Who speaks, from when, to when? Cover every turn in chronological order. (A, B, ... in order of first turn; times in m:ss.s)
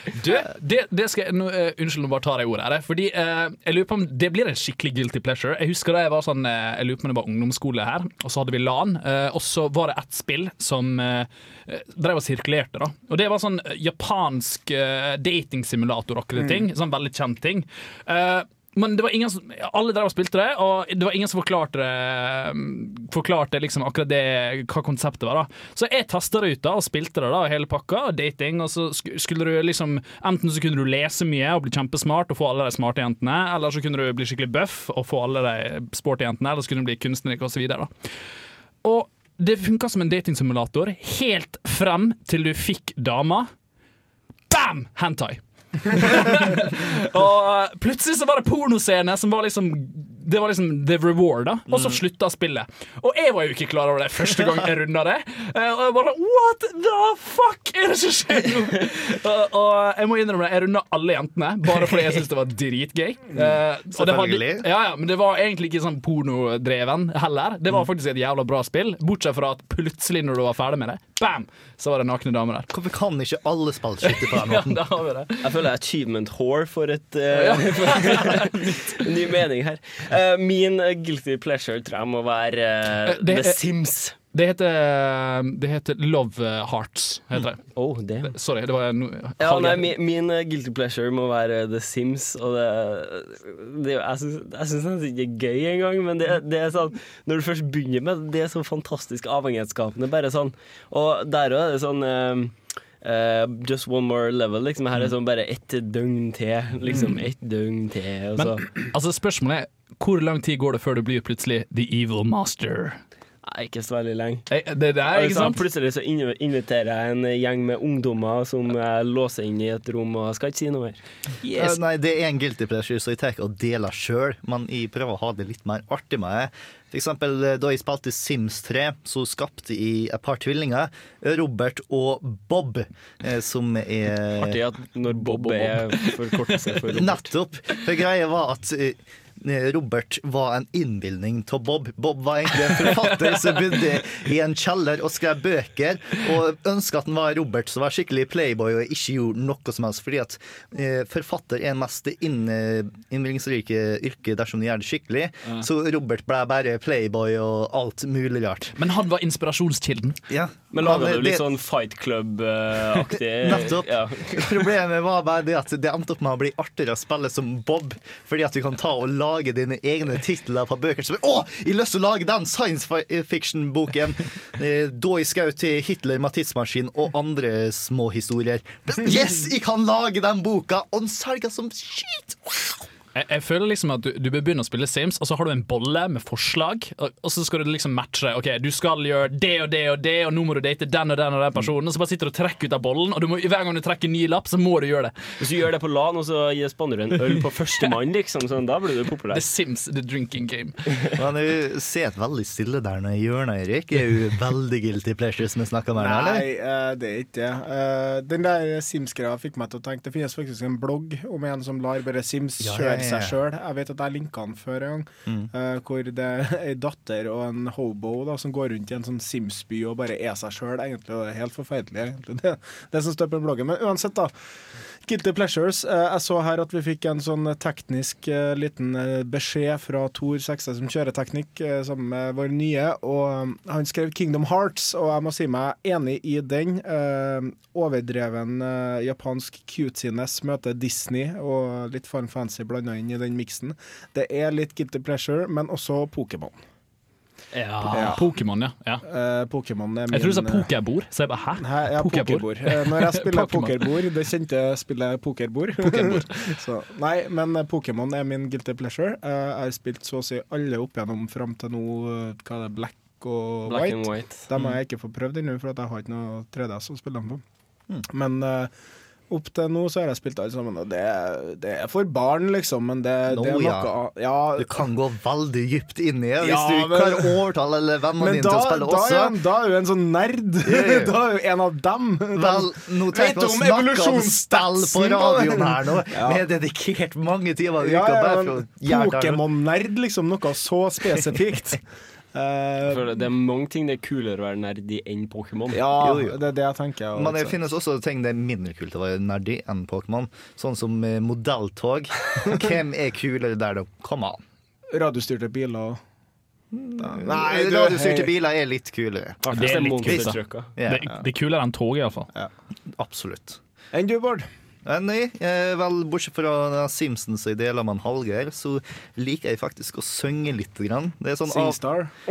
0:00.2-0:37.9 A
0:16.4-0:16.7 B
0:38.8-0:43.5 A
0:44.5-1:12.7 A
0:51.7-0:52.0 C
1:03.9-1:04.6 C
1:12.7-1:14.8 C
1:14.0-1:15.4 A
1:15.4-1:24.1 D
1:17.4-1:18.5 A
1:23.0-1:29.9 A
1:27.7-1:28.3 D
1:29.4-1:48.6 D
1:46.9-1:47.2 A
1:48.4-1:53.0 A
1:53.4-1:54.5 D
1:54.5-1:55.6 A
1:55.1-2:01.0 D
2:01.4-2:01.8 A
2:01.6-2:14.6 C
2:14.4-2:17.3 D
2:15.1-2:16.7 A
2:16.9-2:38.8 C
2:22.7-2:23.8 A
2:38.8-2:40.2 A
2:40.3-2:41.4 C
2:40.7-2:44.6 D
2:43.3-3:02.8 C
3:03.1-3:15.2 A
3:15.4-3:19.4 D
3:19.3-3:20.8 A
3:21.2-3:26.5 C
3:25.9-3:44.3 B
3:32.6-3:33.4 C
3:45.0-4:06.6 B
4:07.5-4:09.0 A
4:07.9-4:08.4 B
4:09.0-4:10.7 B
4:10.1-4:13.9 A
4:11.6-4:27.4 B
4:15.8-4:16.3 A
4:23.6-4:24.4 D
4:28.1-4:28.7 B
4:29.3-4:34.8 B
4:33.2-4:33.9 C
4:34.6-4:39.4 C
4:36.4-4:37.4 B
4:38.2-4:46.4 B
4:40.6-4:41.2 C
4:42.3-4:49.4 C
4:47.8-4:51.8 B
4:52.3-4:53.1 B
4:52.8-4:55.8 D
4:55.7-4:57.6 B
4:56.0-4:56.4 C
4:57.1-5:04.4 C
5:04.9-5:06.0 B
5:06.7-5:11.1 C
5:07.0-5:08.3 B
5:09.4-5:10.7 D
5:09.5-5:12.3 A
5:12.9-5:13.6 C
5:13.9-5:14.4 B
5:14.8-5:21.8 C
5:21.4-5:22.1 B